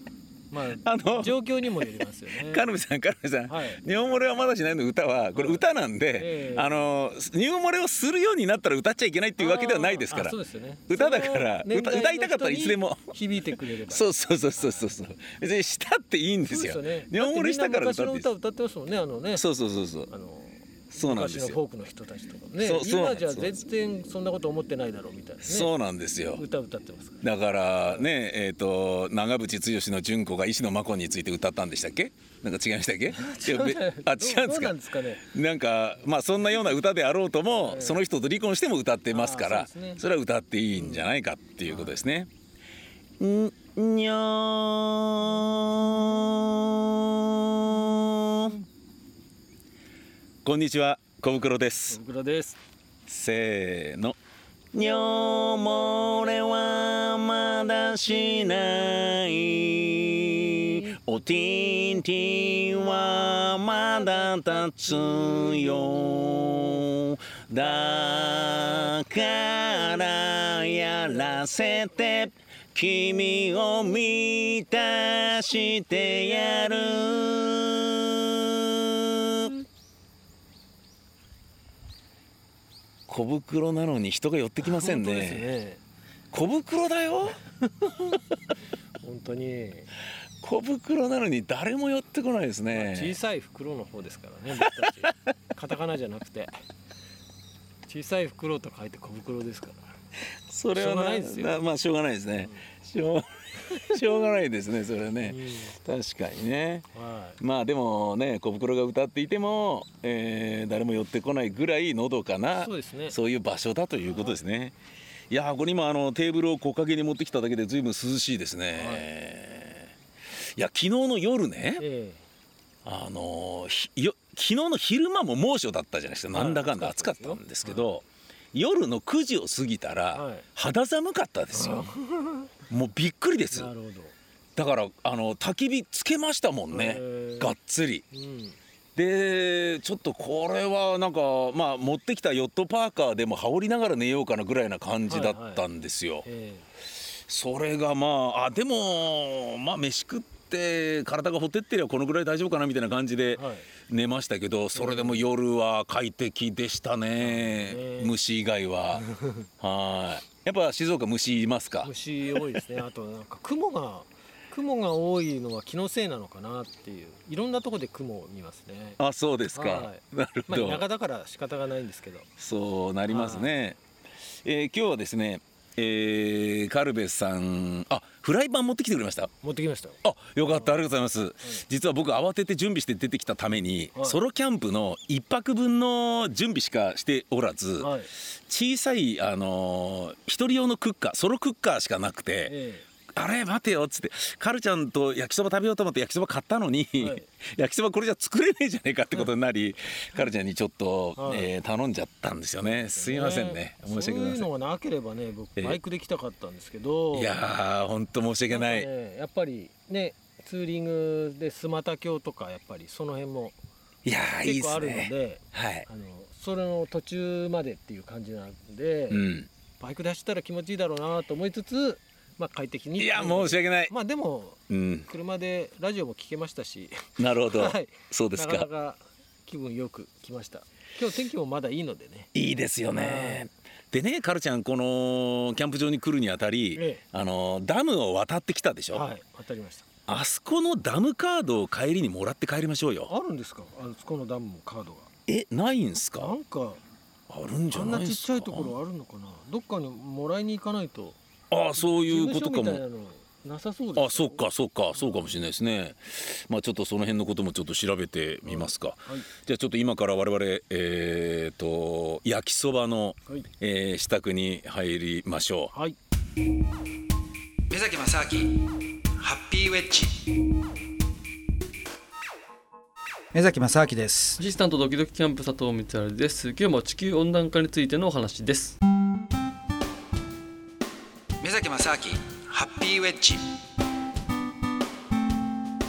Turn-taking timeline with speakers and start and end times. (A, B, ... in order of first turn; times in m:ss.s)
0:00.5-0:02.7 A
0:00.8-0:10.4 B
0:03.5-0:03.8 A
0:05.4-0:05.6 A
0:06.1-0:06.9 A
0:09.4-0:14.0 A
0:10.9-0:13.1 B
0:13.9-0:18.3 B
0:14.6-0:14.9 A
0:16.5-0:19.4 A
0:19.4-0:20.1 B
0:20.1-0:25.7 A
0:20.9-0:21.6 B
0:22.6-0:23.6 B
0:25.4-0:26.4 B
0:26.4-0:27.2 A
0:27.2-0:42.3 B
0:33.1-0:35.3 A
0:37.6-0:38.0 A
0:39.1-0:40.0 A
0:40.8-0:41.1 A
0:41.7-0:42.0 A
0:43.2-0:48.5 B
0:50.4-0:52.0 B
0:51.9-0:52.6 A
0:53.1-0:54.2 B
0:54.7-1:19.6 B
1:23.1-1:25.5 B
1:24.6-1:25.8 A
1:26.3-1:27.4 B
1:27.7-1:28.1 A
1:29.0-1:29.9 A
1:30.4-1:33.2 B
1:32.7-1:36.6 A
1:34.7-1:35.1 B
1:37.9-1:39.8 A
1:40.5-1:46.9 B
1:40.8-1:41.6 A
1:43.7-1:44.3 A
1:45.2-1:45.8 A
1:46.9-1:47.4 A
1:47.4-1:54.8 B
1:52.6-1:53.2 A
1:54.1-1:54.4 A
1:55.3-1:59.9 B
1:58.8-1:59.0 A
2:00.6-2:01.8 B
2:01.8-2:02.2 A
2:02.8-2:11.9 B
2:06.3-2:07.9 A
2:10.1-2:10.5 A
2:11.5-2:12.5 A
2:12.7-2:13.7 B
2:13.5-2:14.1 A
2:14.6-2:18.0 B
2:16.7-2:17.5 A
2:18.1-2:18.6 A
2:19.0-2:26.3 B
2:25.1-2:25.6 A
2:26.2-2:26.7 A
2:27.3-2:39.1 B
2:33.3-2:33.7 A
2:34.8-2:35.2 A
2:37.2-2:38.1 A
2:39.0-2:39.5 A
2:39.6-2:41.9 B
2:41.8-2:49.0 A
2:49.0-2:50.8 B
2:49.5-2:52.3 A
2:52.4-2:53.8 B
2:53.1-2:53.5 A
2:54.4-2:59.3 B
2:59.4-3:00.8 A
3:00.0-3:12.6 B
3:07.8-3:08.1 A
3:12.5-3:12.8 A
3:13.1-3:24.5 B
3:17.0-3:17.3 A
3:21.2-3:21.5 A
3:22.8-3:27.4 A
3:27.1-3:28.9 B
3:28.5-3:33.6 A
3:34.0-3:35.9 B
3:34.4-3:39.2 A
3:39.1-3:39.5 B
3:39.8-3:52.3 A
3:43.0-3:43.9 B
3:44.7-3:45.1 B
3:47.2-3:48.7 B
3:52.3-3:59.0 B
3:52.9-3:53.5 A
3:56.8-3:57.0 A
3:58.9-3:59.9 A
4:00.1-4:03.1 B
4:03.1-4:05.1 A
4:05.3-4:06.4 B
4:06.2-4:06.8 A
4:07.3-4:08.7 B
4:07.7-4:11.2 A
4:11.5-4:12.8 B
4:11.8-4:14.4 A
4:14.0-4:25.7 B
4:15.0-4:15.2 A
4:18.5-4:19.3 A
4:27.7-4:30.3 C
4:33.3-4:34.4 C
4:34.4-4:38.8 D
4:41.4-4:43.6 C